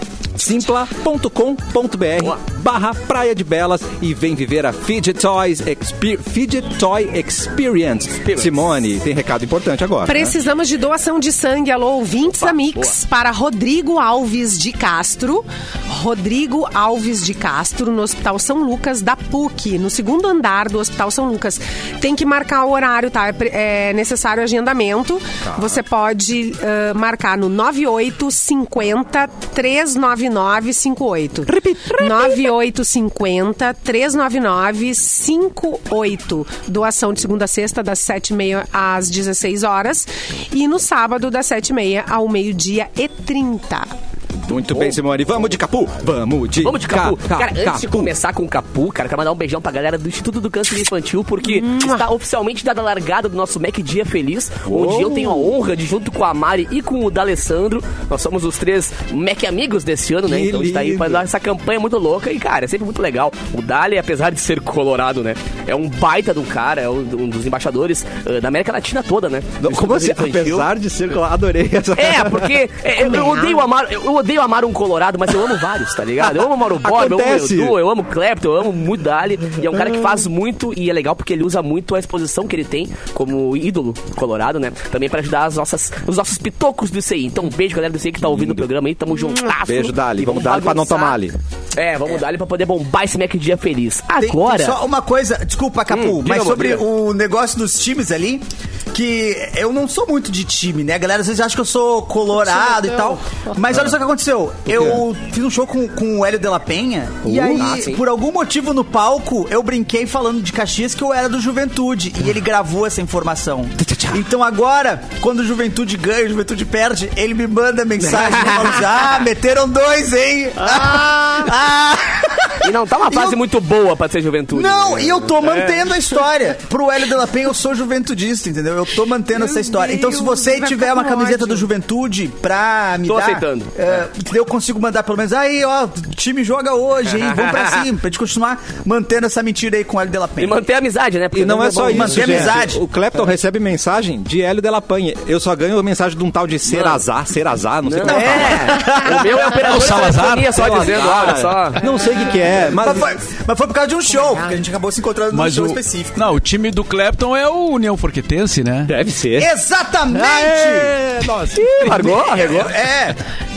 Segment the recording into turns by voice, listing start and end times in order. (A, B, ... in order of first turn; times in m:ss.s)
0:00.4-0:10.3 A
0:08.2-0:08.6 B
0:10.0-0:43.9 C
0:12.3-0:12.9 B
0:25.4-0:25.8 A
0:31.5-0:32.5 A
0:44.4-0:48.1 A
0:44.5-0:45.0 B
0:46.6-1:10.7 B
0:51.4-0:52.0 C
0:54.6-0:55.5 A
1:00.2-1:01.2 A
1:09.6-1:12.5 A
1:12.0-1:31.2 B
1:13.0-1:13.6 C
1:16.8-1:17.8 A
1:28.2-1:28.7 A
1:29.6-1:31.3 A
1:31.7-1:34.8 B
1:34.2-2:03.4 D
1:35.9-1:36.8 B
1:42.5-1:43.2 C
1:44.7-1:45.0 A
1:47.2-1:47.8 A
1:47.6-1:48.0 B
1:53.8-1:54.2 A
1:58.1-1:58.7 B
2:02.6-2:05.9 B
2:04.5-2:20.6 D
2:09.4-2:11.7 C
2:13.0-2:13.7 B
2:17.1-2:17.8 B
2:20.4-2:22.6 B
2:21.3-2:29.2 A
2:21.8-2:22.8 D
2:26.6-2:27.0 B
2:27.8-2:31.8 B
2:28.0-2:29.5 D
2:29.6-2:30.6 E
2:30.5-2:33.1 A
2:32.6-2:36.3 D
2:34.2-2:34.6 C
2:35.3-2:38.9 E
2:38.9-2:39.5 A
2:39.4-2:40.9 D
2:40.1-2:42.2 A
2:41.5-2:42.7 B
2:41.9-2:43.2 D